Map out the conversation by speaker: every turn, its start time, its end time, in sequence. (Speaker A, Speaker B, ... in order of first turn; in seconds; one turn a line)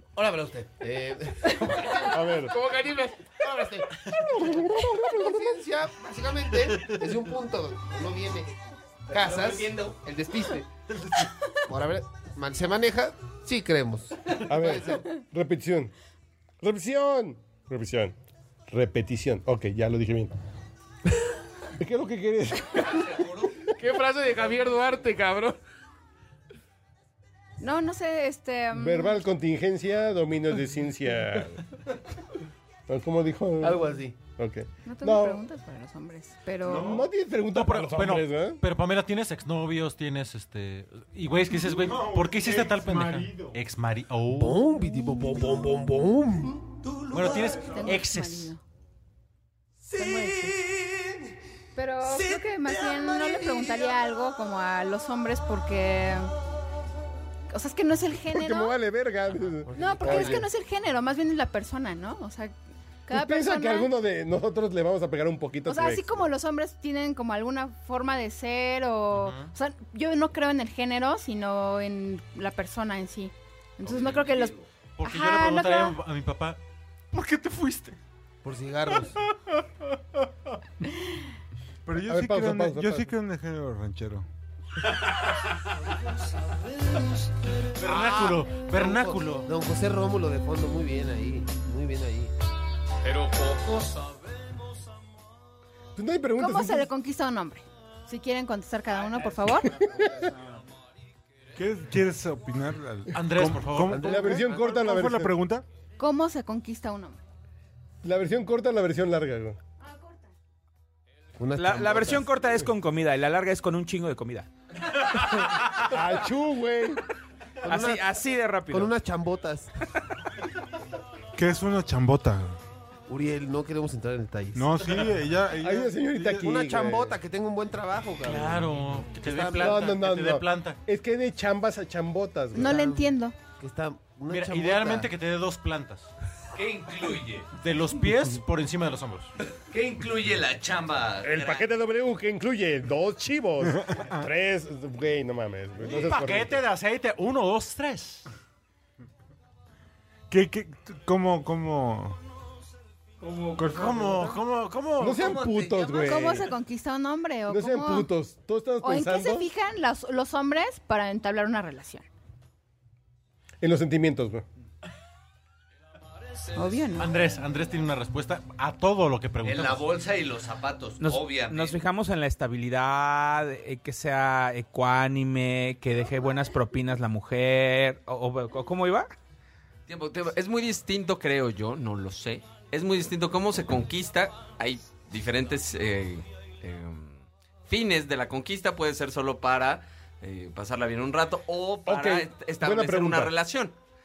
Speaker A: 0.1-8.5
Speaker B: 2.1-2.6
Speaker A: 9.1-10.7
Speaker C: 9.4-9.6
Speaker A: 11.7-15.1
Speaker B: 14.5-15.9
Speaker B: 16.6-18.1
Speaker B: 18.7-20.3
Speaker B: 21.8-23.2
Speaker D: 23.1-23.4
Speaker A: 23.7-25.6
Speaker E: 27.6-29.2
Speaker B: 28.7-31.6
Speaker B: 32.9-35.4
Speaker A: 33.6-34.2
Speaker E: 34.8-37.0
Speaker B: 36.7-38.6
Speaker F: 36.7-37.0
Speaker G: 37.5-44.6
Speaker F: 41.6-43.6
Speaker A: 44.4-46.6
Speaker G: 47.1-48.5
Speaker E: 47.1-48.6
Speaker E: 49.9-50.6
Speaker E: 51.7-56.3
Speaker E: 57.5-58.7
Speaker B: 58.3-60.4
Speaker A: 59.6-60.5
Speaker E: 59.8-62.5
Speaker E: 63.0-63.9
Speaker B: 63.1-66.2
Speaker E: 65.7-76.0
Speaker G: 69.1-69.5
Speaker D: 73.8-74.6
Speaker G: 75.0-76.6
Speaker F: 77.1-77.9
Speaker A: 78.4-79.1
Speaker F: 81.8-84.2
Speaker B: 82.0-83.1
Speaker G: 87.8-89.5
Speaker A: 87.9-92.3
Speaker C: 93.0-94.4
Speaker B: 96.0-96.9
Speaker E: 96.4-99.8
Speaker B: 99.8-100.1
Speaker F: 101.5-105.6
Speaker G: 103.1-104.0
Speaker A: 103.9-104.5
Speaker B: 103.9-105.3
Speaker E: 106.0-107.2
Speaker B: 108.0-109.6
Speaker E: 109.9-110.2
Speaker A: 111.4-112.3
Speaker H: 111.5-114.5
Speaker H: 115.1-115.5
Speaker B: 115.8-117.0
Speaker A: 117.6-118.1
Speaker H: 117.7-118.9
Speaker A: 118.7-119.7
Speaker F: 121.3-122.6
Speaker A: 123.1-124.8
Speaker F: 124.5-126.5
Speaker B: 125.6-127.2
Speaker A: 126.4-129.8
Speaker G: 128.2-130.8
Speaker B: 129.6-132.8
Speaker E: 132.5-133.3
Speaker A: 132.6-133.1
Speaker A: 133.6-135.1
Speaker G: 134.3-136.1
Speaker D: 136.5-137.5
Speaker G: 137.6-139.3
Speaker D: 139.7-141.7
Speaker B: 141.2-146.6
Speaker F: 143.8-144.2
Speaker G: 145.8-148.2
Speaker F: 150.3-152.2
Speaker C: 153.2-154.1
Speaker F: 153.6-154.3
Speaker G: 153.6-155.4
Speaker B: 155.0-156.5
Speaker D: 155.2-156.2
Speaker E: 155.9-158.1
Speaker B: 157.5-159.5
Speaker E: 158.8-162.1
Speaker B: 163.6-164.4
Speaker E: 166.5-167.1
Speaker G: 166.9-169.9
Speaker D: 169.4-171.8
Speaker H: 171.0-179.1
Speaker I: 179.9-193.7
Speaker B: 191.8-193.3